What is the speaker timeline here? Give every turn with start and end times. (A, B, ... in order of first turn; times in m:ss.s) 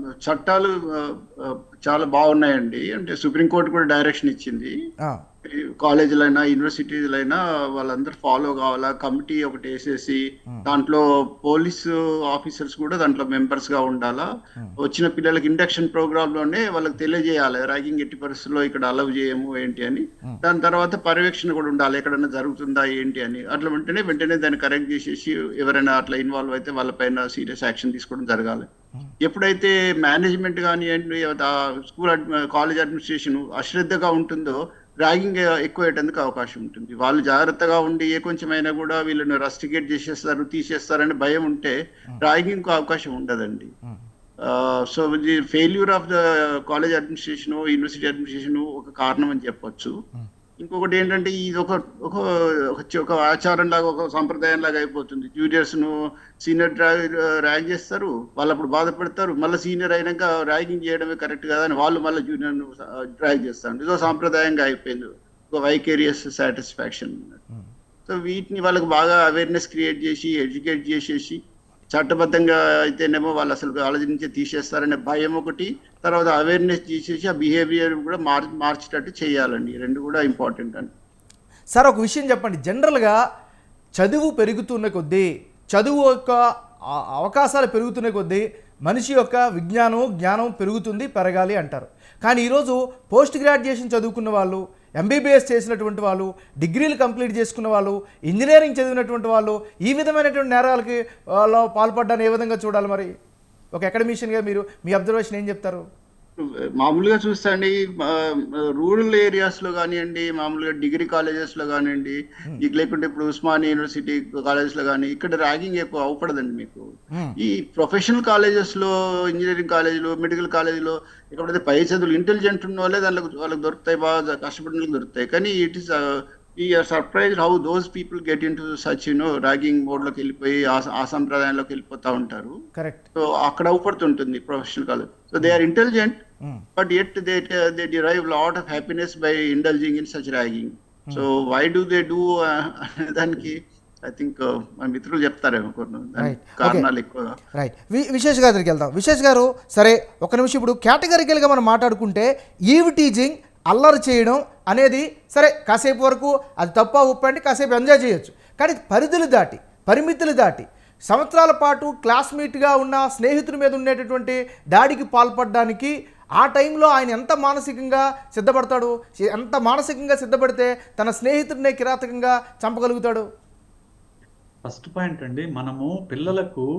0:00.2-0:04.7 A
0:05.4-0:28.7 A
0:29.2-0:43.7 A
0:44.4-0:49.9 A
0:50.6-1:07.4 A
1:08.1-1:20.9 A
1:21.7-1:23.2 B
1:24.0-1:26.4 B
1:26.9-1:43.1 B
1:43.7-1:45.8 B
1:46.4-1:56.8 A
1:57.4-2:12.6 A
2:12.8-2:13.0 B
2:13.2-2:16.2 A
2:16.8-2:27.3 A
2:26.2-2:26.8 B
2:27.6-2:53.2 B
2:54.6-2:56.6 C